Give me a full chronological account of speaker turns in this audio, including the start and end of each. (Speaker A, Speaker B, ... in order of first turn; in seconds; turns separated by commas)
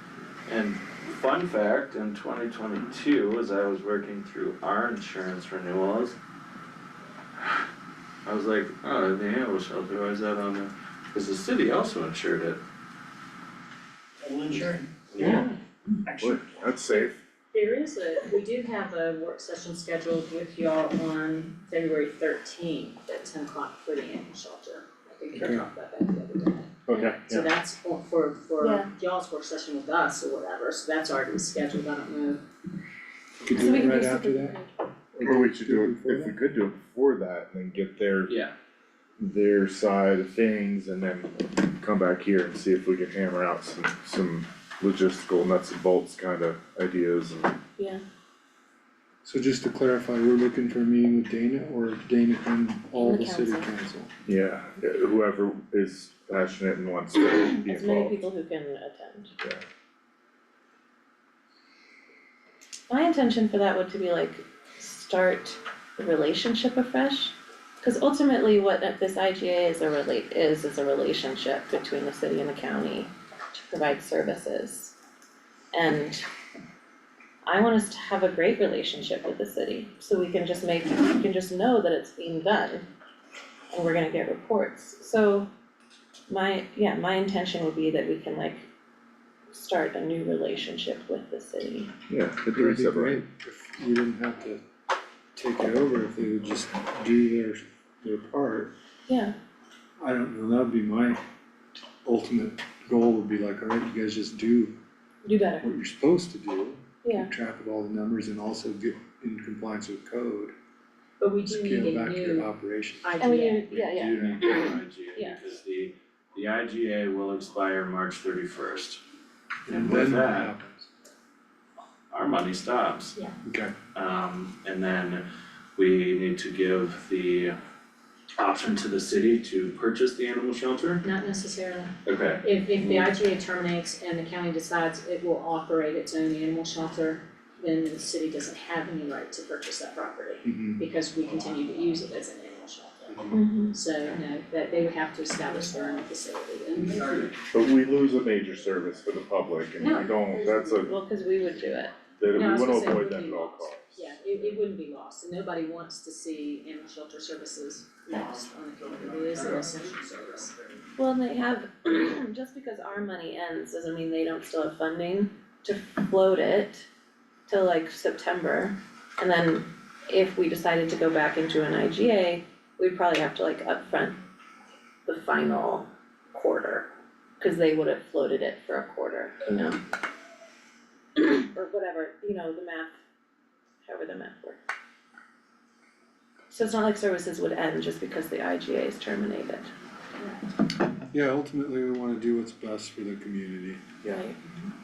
Speaker A: 0.5-6.2, Speaker A: 8.2-12.6, Speaker B: 14.2-15.3, Speaker A: 15.1-15.4, Speaker C: 15.2-15.6, Speaker B: 16.0-17.1, Speaker C: 16.2-17.2, Speaker D: 17.5-26.8, Speaker E: 25.4-25.6, Speaker C: 26.9-27.5, Speaker D: 27.3-32.4, Speaker F: 28.6-28.9, Speaker E: 33.4-34.6, Speaker F: 33.5-34.7, Speaker E: 35.1-36.3, Speaker C: 35.2-38.3, Speaker A: 38.2-38.5, Speaker C: 39.2-47.5, Speaker F: 47.8-48.0, Speaker E: 49.2-54.1, Speaker F: 52.9-53.7, Speaker C: 54.2-58.3, Speaker F: 57.7-59.3, Speaker F: 62.9-75.0, Speaker F: 75.7-76.3, Speaker F: 77.5-82.8, Speaker F: 83.7-85.5, Speaker F: 86.3-88.7, Speaker F: 89.5-91.9, Speaker C: 92.1-93.2, Speaker E: 92.5-94.6, Speaker E: 95.3-98.7, Speaker F: 99.1-99.3, Speaker E: 100.0-101.2, Speaker E: 102.0-104.7, Speaker F: 105.2-105.7, Speaker E: 105.6-110.5, Speaker F: 107.0-107.3, Speaker D: 111.2-112.5, Speaker E: 111.4-113.2, Speaker D: 113.0-113.8, Speaker F: 113.2-115.4, Speaker A: 113.7-119.0, Speaker A: 119.7-120.5, Speaker E: 119.7-120.9, Speaker A: 122.1-123.1, Speaker E: 123.4-123.8, Speaker A: 123.9-125.2, Speaker A: 125.8-127.5, Speaker A: 128.4-131.0, Speaker D: 131.0-147.1, Speaker A: 132.0-133.1, Speaker E: 140.4-140.8, Speaker F: 143.3-143.8, Speaker A: 146.8-147.4, Speaker C: 147.5-150.9, Speaker D: 149.8-150.1, Speaker F: 150.3-151.9, Speaker C: 152.2-154.1, Speaker D: 152.3-160.5, Speaker B: 158.1-160.9, Speaker F: 161.0-166.8, Speaker F: 167.5-174.2, Speaker F: 175.1-179.8, Speaker F: 181.2-182.9, Speaker F: 183.8-184.6, Speaker F: 186.5-189.7, Speaker E: 191.1-193.9, Speaker F: 194.0-194.7